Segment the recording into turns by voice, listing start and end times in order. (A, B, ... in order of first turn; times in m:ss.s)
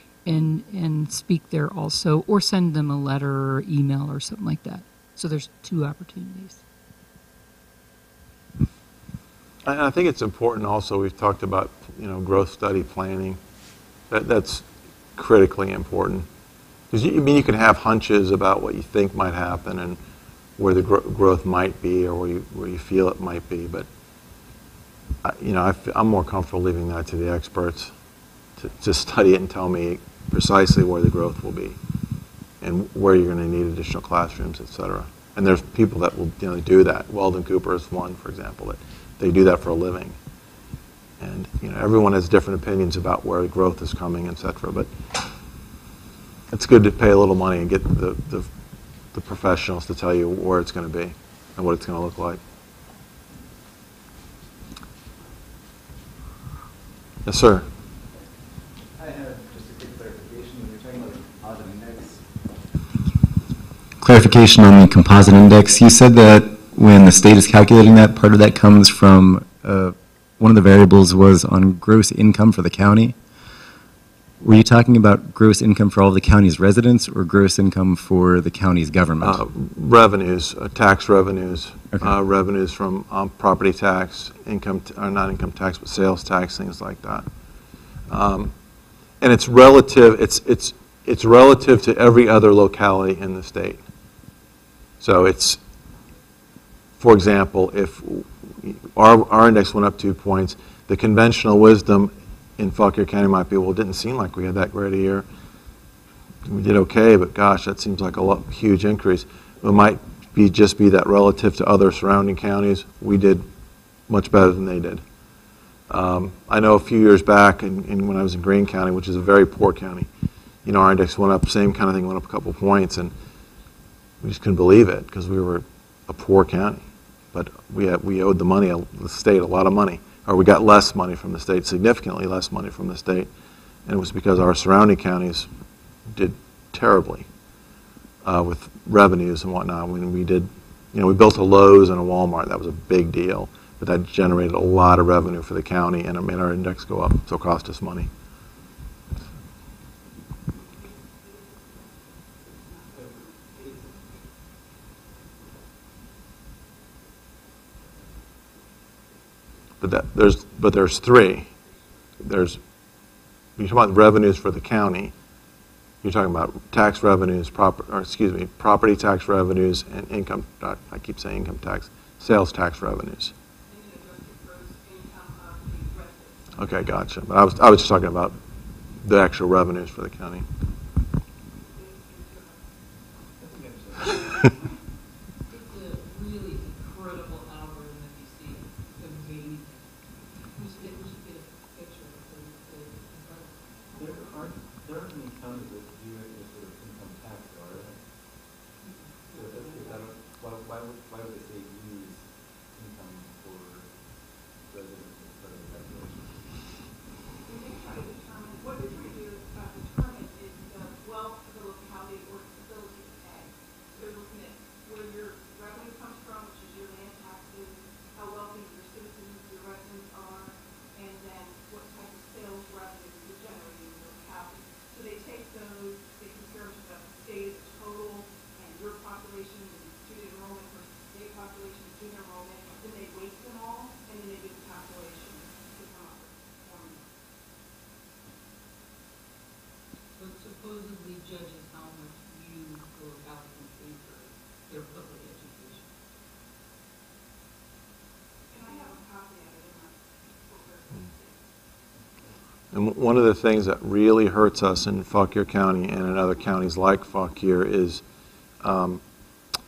0:00.2-0:06.6 A
0:09.6-0:13.4 B
0:14.1-0:16.3 B
0:16.9-0:20.0 B
0:20.6-0:23.9 B
0:25.2-0:27.9 B
0:28.6-0:31.8 B
0:32.6-0:40.2 B
0:41.2-0:44.9 B
0:46.5-0:48.5 B
0:49.1-0:52.4 B
0:57.2-0:57.6 B
0:58.9-1:02.3 C
1:04.0-1:13.2 D
1:14.4-1:19.4 D
1:19.2-1:27.3 B
1:28.1-1:28.5 B
1:29.2-1:33.8 B
1:35.0-1:35.6 B
1:37.0-1:45.2 B
1:46.4-1:53.4 B
1:54.1-1:55.0 B
1:55.9-2:00.1 B
2:00.6-2:03.1 B
2:04.2-2:06.8 B
2:07.3-2:13.3 B
2:13.8-2:15.5 B
2:16.1-2:17.3 B
2:18.2-2:28.1 B
2:31.2-2:31.7 E
2:32.9-2:33.8 C
2:39.8-2:41.5 B
2:42.2-2:42.6 B
2:43.6-2:45.1 B
2:46.0-2:53.3 B
2:53.7-2:56.5 E
2:56.6-2:58.4 B
2:59.0-3:00.4 B
3:01.7-3:02.7 E
3:03.4-3:04.6 C
3:05.5-3:09.9 F
3:10.5-3:14.5 F
3:13.9-3:18.0 C
3:19.2-3:20.0 F
3:19.3-3:23.9 C
3:24.6-3:26.4 C
3:27.4-3:57.1 E
4:00.2-4:05.9 F
4:08.5-4:11.5 E
4:12.7-4:18.0 B
4:18.6-4:19.0 B